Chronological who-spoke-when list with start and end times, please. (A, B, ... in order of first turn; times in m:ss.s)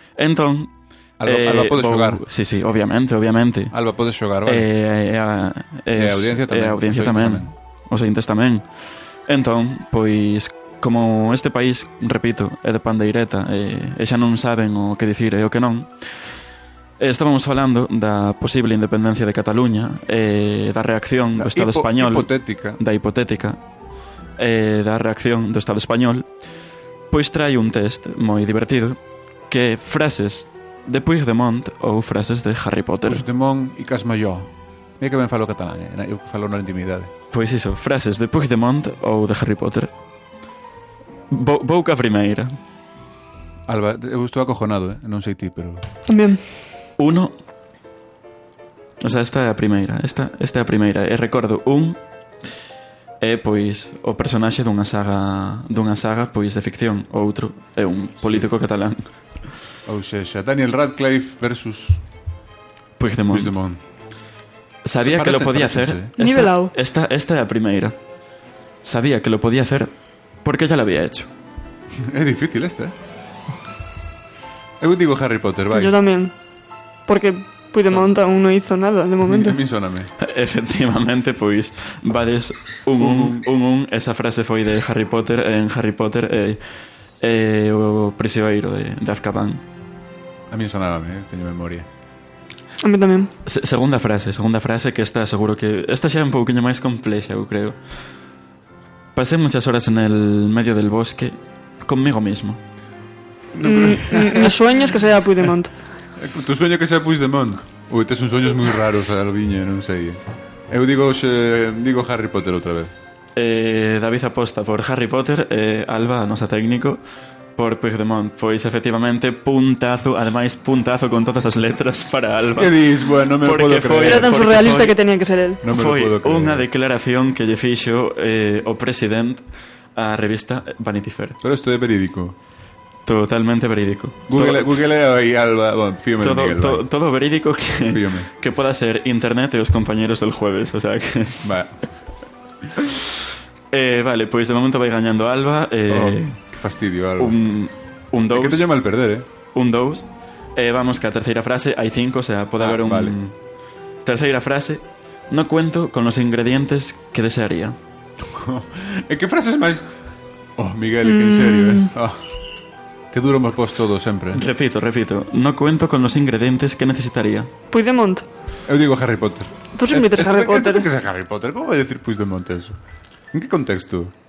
0:00.2-0:03.7 A
0:01.2-0:02.2 B
0:03.7-0:04.7 B
0:04.5-0:08.7 A
0:06.0-0:07.5 B
0:09.3-0:16.0 A
0:17.0-0:23.6 A
0:21.4-0:22.8 B
0:24.4-0:26.3 A
0:27.1-0:33.2 A
0:33.1-0:37.1 B
0:37.3-0:39.9 A
0:41.3-0:42.6 A
0:43.7-0:45.8 B
0:46.1-0:46.4 C
0:47.0-0:47.4 A
0:49.0-0:52.0 A
0:53.2-0:59.0 A
0:59.9-1:02.0 B
1:03.0-1:03.5 A
1:03.3-1:03.8 B
1:04.8-1:08.0 A
1:05.0-1:06.1 B
1:06.2-1:06.7 C
1:08.8-1:09.9 A
1:10.4-1:11.3 A
1:12.0-1:12.9 B
1:14.8-1:16.0 B
1:15.7-1:16.3 C
1:17.1-1:19.6 C
1:19.2-1:20.1 B
1:20.2-1:26.6 A
1:23.0-1:23.4 B
1:27.2-1:29.6 A
1:30.5-1:31.9 B
1:32.8-1:33.3 C
1:33.4-1:37.8 A
1:39.2-1:42.6 A
1:43.6-1:44.6 B
1:43.6-1:45.8 C
1:46.2-1:52.9 B
1:53.4-1:57.0 A
1:57.6-2:05.0 A
2:02.6-2:04.4 B
2:04.0-2:05.6 C
2:05.6-2:06.6 B
2:05.6-2:11.4 A
2:11.4-2:12.4 B
2:13.1-2:14.7 A
2:14.3-2:16.8 B
2:16.2-2:21.4 A
2:17.8-2:18.3 B
2:21.4-2:21.8 B
2:22.8-2:23.0 A
2:23.7-2:26.4 A
2:25.9-2:27.4 B
2:27.2-2:28.7 A
2:28.3-2:29.3 B
2:29.5-2:33.4 A
2:32.6-2:33.2 B
2:34.0-2:37.8 A
2:38.3-2:39.9 B
2:40.6-2:42.2 B
2:41.0-2:41.9 C
2:43.1-2:44.4 B
2:44.3-2:47.5 A
2:47.7-2:48.3 C
2:48.7-2:52.8 B
2:49.8-2:50.9 C
2:53.3-2:54.1 B